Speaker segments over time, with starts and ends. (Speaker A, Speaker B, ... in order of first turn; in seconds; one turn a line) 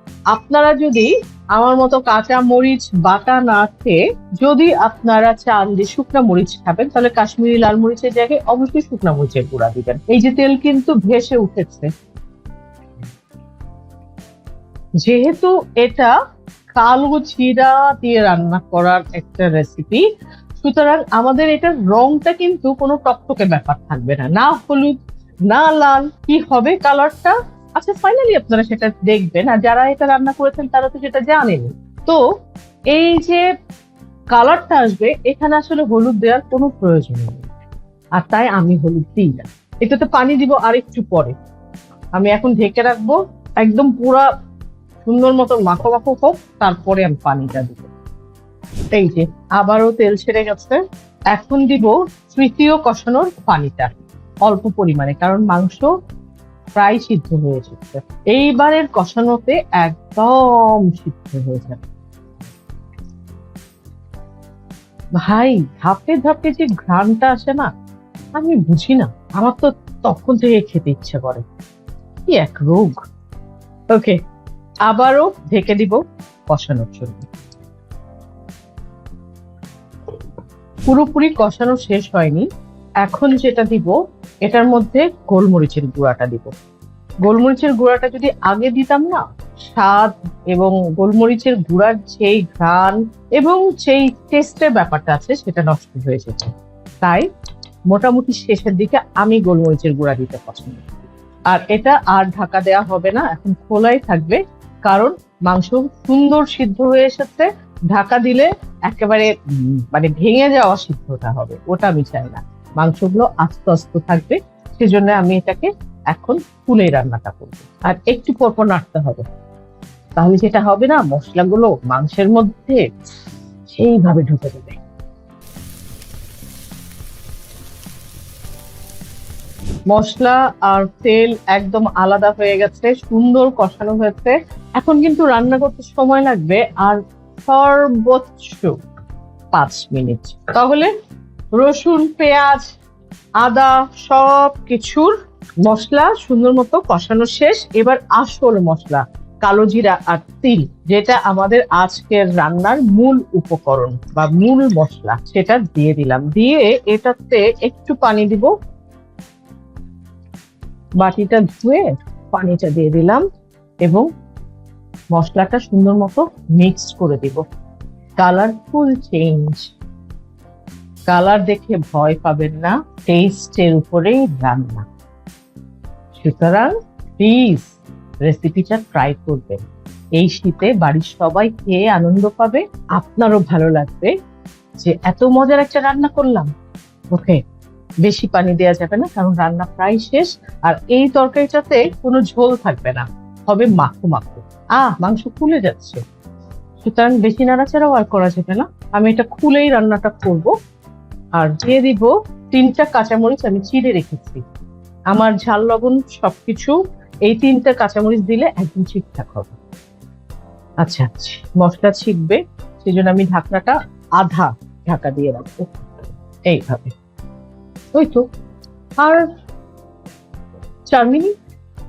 Speaker A: 0.3-11.9
Speaker A: 15.0-16.1
Speaker A: 16.8-20.1
Speaker A: 20.6-25.0
Speaker A: 25.5-32.2
Speaker A: 32.9-33.5
Speaker A: 34.3-37.5
Speaker A: 38.2-41.3
Speaker A: 42.2-44.3
Speaker A: 45.0-47.9
Speaker A: 48.9-50.8
Speaker A: 51.3-53.9
Speaker A: 54.5-55.9
Speaker A: 56.8-61.8
Speaker A: 65.2-67.7
Speaker A: 68.4-71.4
Speaker A: 72.3-73.0
Speaker A: 73.9-74.2
Speaker A: 74.9-76.0
Speaker A: 76.5-77.2
Speaker A: 80.9-82.5
Speaker A: 83.0-86.5
Speaker A: 87.2-96.5
Speaker A: 97.9-100.8
Speaker A: 101.5-119.2
Speaker A: 120.2-122.9
Speaker A: 123.7-124.8
Speaker A: 129.9-138.8
Speaker A: 139.5-140.9
Speaker A: 141.6-142.7
Speaker A: 143.4-145.1
Speaker A: 145.6-158.5
Speaker A: 161.0-163.2
Speaker A: 165.1-167.4
Speaker A: 168.2-169.7
Speaker A: 171.1-174.8
Speaker A: 176.2-177.7
Speaker A: 178.2-179.6
Speaker A: 180.2-184.1
Speaker A: 184.8-186.5
Speaker A: 187.1-187.4
Speaker A: 188.1-196.0
Speaker A: 196.8-200.5
Speaker A: 201.4-204.4
Speaker A: 205.1-206.8
Speaker A: 207.3-209.5
Speaker A: 210.8-216.9
Speaker A: 217.9-218.2
Speaker A: 219.0-219.2
Speaker A: 220.9-221.3